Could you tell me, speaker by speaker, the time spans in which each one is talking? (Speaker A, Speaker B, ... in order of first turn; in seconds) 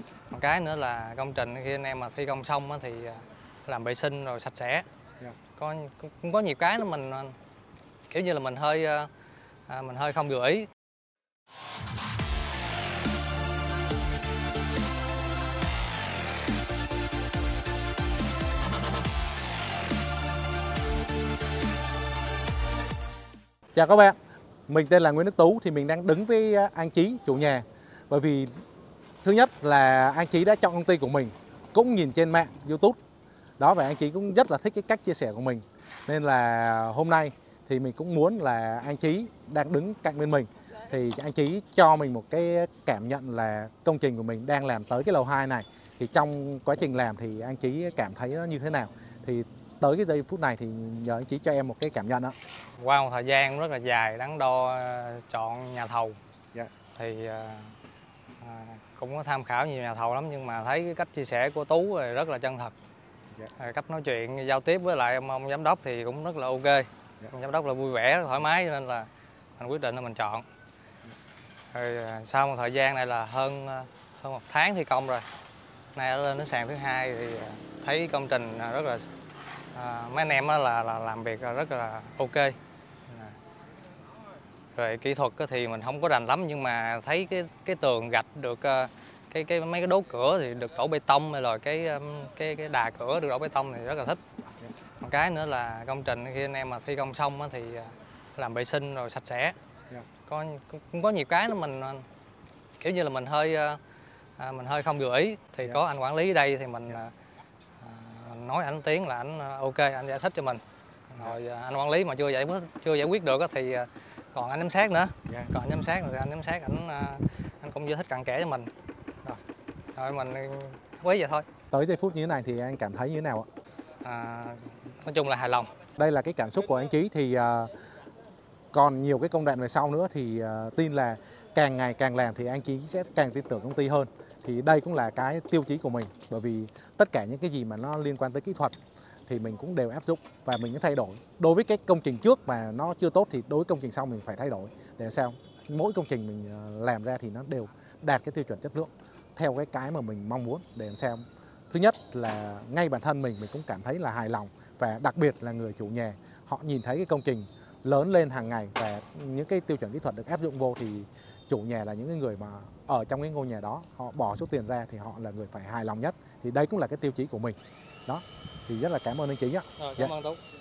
Speaker A: 0.3-4.9, 5.5-7.4, 8.1-9.1, 9.7-10.7, 52.8-56.2, 56.9-57.8, 58.4-62.7, 63.5-70.5, 71.7-75.2, 75.9-79.1, 79.7-83.4, 84.7-94.2, 95.0-99.5, 100.2-102.0, 102.8-103.8, 104.4-107.1, 107.8-118.7, 119.9-121.5, 124.0-125.7, 169.8-170.4
Speaker B: 23.7-24.1, 24.7-28.6, 29.2-33.0, 33.6-52.4, 121.7-123.5, 126.0-127.7, 128.7-170.1